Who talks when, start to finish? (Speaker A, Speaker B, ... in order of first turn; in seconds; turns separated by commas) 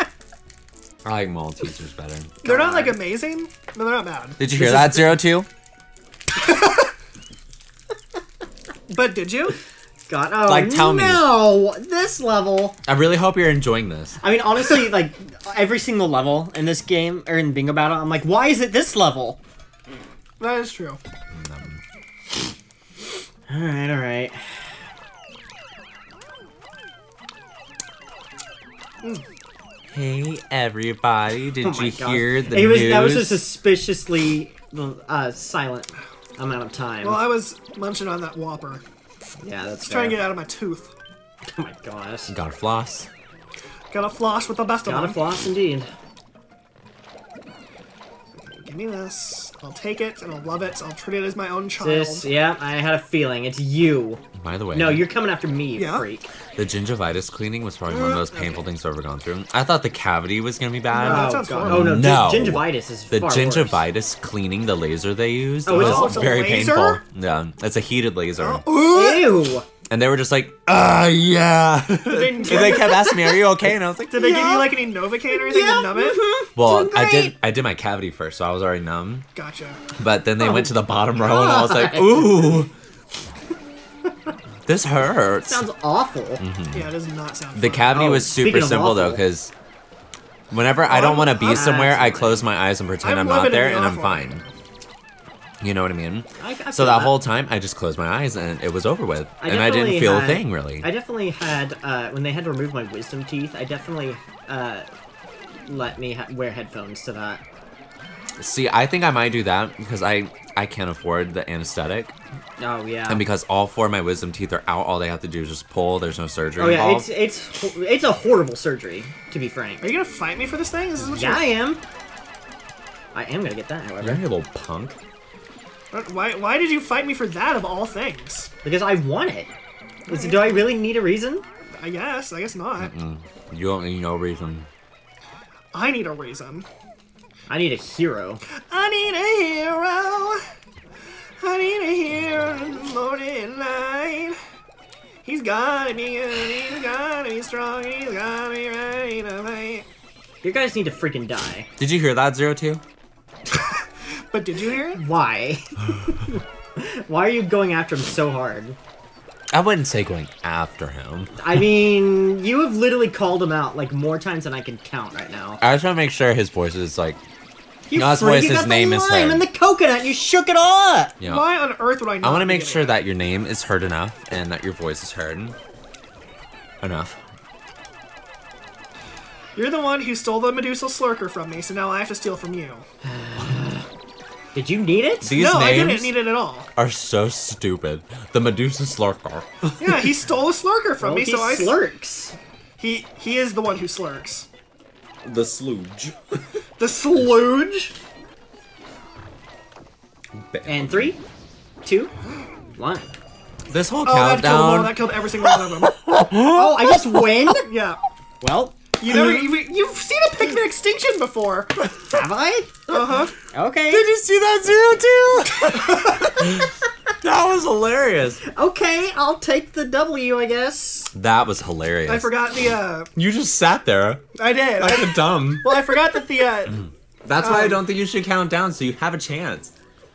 Speaker A: 1.0-2.4, Speaker B: 2.4-3.0, Speaker C: 2.4-4.9, Speaker A: 4.4-5.5, Speaker C: 6.4-6.9, Speaker C: 8.9-9.6, Speaker B: 10.1-12.8, Speaker A: 10.4-11.3, Speaker A: 12.8-14.2, Speaker B: 14.2-19.4, Speaker C: 20.4-21.0, Speaker A: 21.3-21.8, Speaker B: 23.5-24.7, Speaker A: 29.9-33.5, Speaker B: 31.6-37.3, Speaker C: 37.0-38.8, Speaker B: 39.4-40.3, Speaker C: 39.8-40.9, Speaker B: 41.5-42.3, Speaker A: 42.3-43.1, Speaker C: 43.9-45.2, Speaker B: 44.9-45.9, Speaker C: 48.4-52.3, Speaker B: 51.8-54.2, Speaker A: 54.4-55.1, Speaker B: 54.7-56.3, Speaker C: 55.8-56.1, Speaker A: 56.6-68.7, Speaker C: 57.9-58.6, Speaker C: 60.9-62.0, Speaker B: 61.0-63.9, Speaker B: 65.7-66.4, Speaker C: 65.7-67.0, Speaker C: 68.4-69.6, Speaker B: 68.8-69.7, Speaker A: 69.9-74.3, Speaker C: 72.0-73.1, Speaker B: 72.5-73.4, Speaker C: 74.1-76.2, Speaker B: 74.2-77.3, Speaker A: 76.5-79.3, Speaker C: 79.3-79.8, Speaker A: 80.0-82.7, Speaker B: 80.4-82.6, Speaker A: 84.7-85.7, Speaker B: 85.4-86.4, Speaker A: 86.4-86.9, Speaker C: 86.7-88.2, Speaker A: 87.5-89.5, Speaker B: 87.9-89.2, Speaker A: 90.5-94.4, Speaker C: 90.9-91.9, Speaker B: 91.4-92.4, Speaker C: 93.0-94.5, Speaker A: 95.6-100.9, Speaker B: 96.4-97.2, Speaker B: 99.4-104.9, Speaker B: 105.6-107.4, Speaker A: 108.4-112.2, Speaker B: 112.6-113.2, Speaker A: 113.1-117.1, Speaker B: 116.6-120.0, Speaker C: 119.8-121.6, Speaker B: 121.0-121.8, Speaker B: 123.1-124.3, Speaker A: 124.0-125.0, Speaker C: 125.9-128.5, Speaker B: 128.6-129.5, Speaker C: 130.1-130.8, Speaker B: 130.1-131.4, Speaker C: 131.8-132.9, Speaker A: 132.8-134.7, Speaker C: 135.7-136.7, Speaker B: 137.5-138.4, Speaker C: 138.7-140.4, Speaker C: 141.4-144.4, Speaker C: 145.2-149.9, Speaker B: 150.4-151.7, Speaker A: 151.8-152.8, Speaker C: 153.6-155.0, Speaker B: 154.9-158.8, Speaker A: 159.5-161.7, Speaker B: 161.4-165.6, Speaker A: 165.6-167.2, Speaker B: 167.9-171.2, Speaker A: 167.9-169.5, Speaker A: 171.2-171.6, Speaker C: 171.2-173.0, Speaker A: 172.2-175.6, Speaker A: 176.8-177.2, Speaker C: 179.6-182.8, Speaker B: 183.1-183.9, Speaker B: 184.5-185.3, Speaker A: 185.2-186.2, Speaker C: 185.3-186.7, Speaker A: 186.8-189.8, Speaker C: 189.8-191.8, Speaker B: 191.0-192.4, Speaker C: 192.8-194.5, Speaker A: 195.2-196.4, Speaker C: 196.8-197.9, Speaker A: 200.3-201.2, Speaker B: 200.7-201.2, Speaker B: 201.8-202.1, Speaker B: 202.8-203.1, Speaker A: 203.7-207.4, Speaker C: 204.0-206.2, Speaker B: 206.2-207.7, Speaker C: 207.5-208.0, Speaker B: 208.4-209.0, Speaker C: 209.0-211.9, Speaker B: 212.1-214.1, Speaker C: 212.9-213.4, Speaker A: 213.9-218.4, Speaker C: 215.7-216.5, Speaker B: 218.5-221.1, Speaker A: 221.1-222.3, Speaker C: 222.1-223.1, Speaker A: 223.2-224.2, Speaker C: 224.4-227.9, Speaker A: 224.8-225.9, Speaker A: 227.2-229.7